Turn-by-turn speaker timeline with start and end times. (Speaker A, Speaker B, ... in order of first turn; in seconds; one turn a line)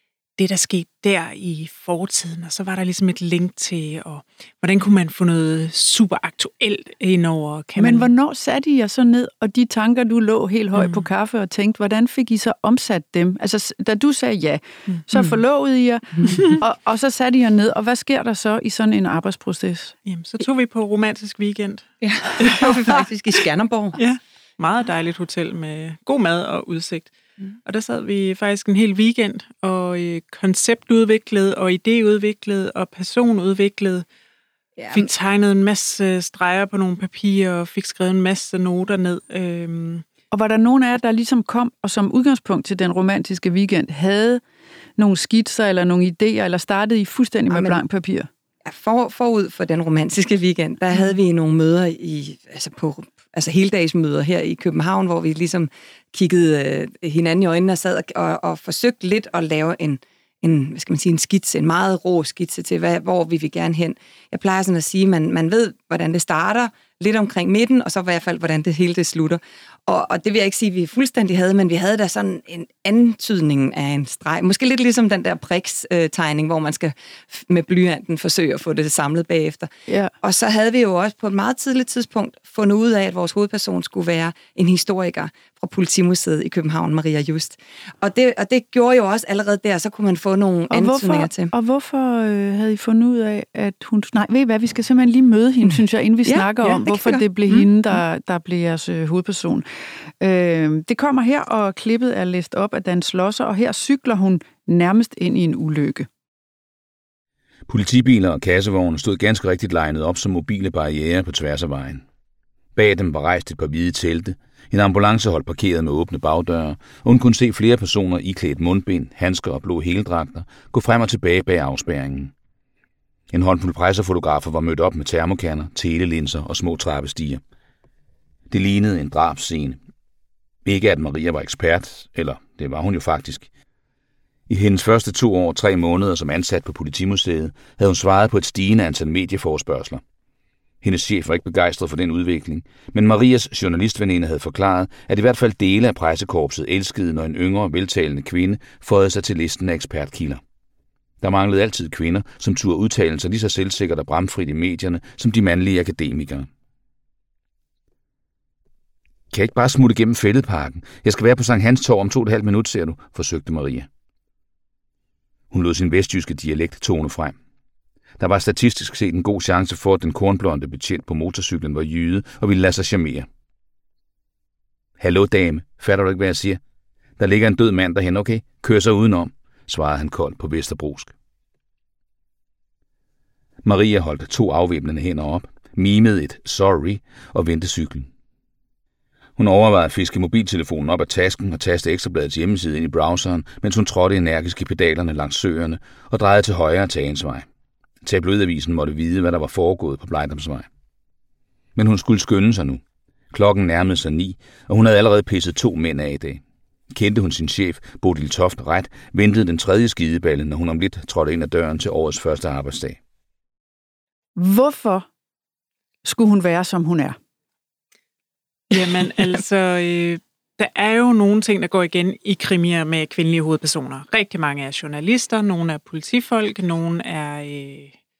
Speaker A: 0.4-8.1
Speaker B: 7.8-19.9
Speaker A: 10.7-11.1
Speaker A: 14.9-15.4
Speaker A: 16.3-16.6
Speaker A: 20.1-23.4
Speaker C: 22.0-24.0
Speaker A: 23.9-27.1
Speaker A: 27.6-34.0
Speaker C: 34.8-35.1
Speaker A: 34.9-40.0
Speaker B: 40.3-44.4
Speaker B: 45.0-48.3
Speaker C: 47.5-47.8
Speaker C: 48.7-79.7
Speaker B: 79.9-80.1
Speaker C: 80.2-91.5
Speaker B: 90.7-99.7
Speaker C: 95.7-97.7
Speaker B: 100.2-106.1
Speaker D: 107.7-112.0
Speaker D: 112.7-122.3
Speaker D: 123.3-127.4
Speaker D: 128.5-129.8
Speaker D: 130.6-133.5
Speaker D: 134.5-140.0
Speaker D: 140.8-150.4
Speaker D: 151.2-156.5
Speaker D: 159.3-163.9
Speaker D: 165.5-167.3
Speaker D: 168.2-173.3
Speaker D: 175.0-176.6
Speaker D: 177.2-181.1
Speaker D: 183.6-188.1
Speaker D: 189.4-197.4
Speaker D: 198.0-200.7
Speaker D: 201.8-202.8
Speaker D: 203.3-213.0
Speaker B: 214.3-215.1
Speaker B: 216.0-217.2
Speaker A: 218.7-227.9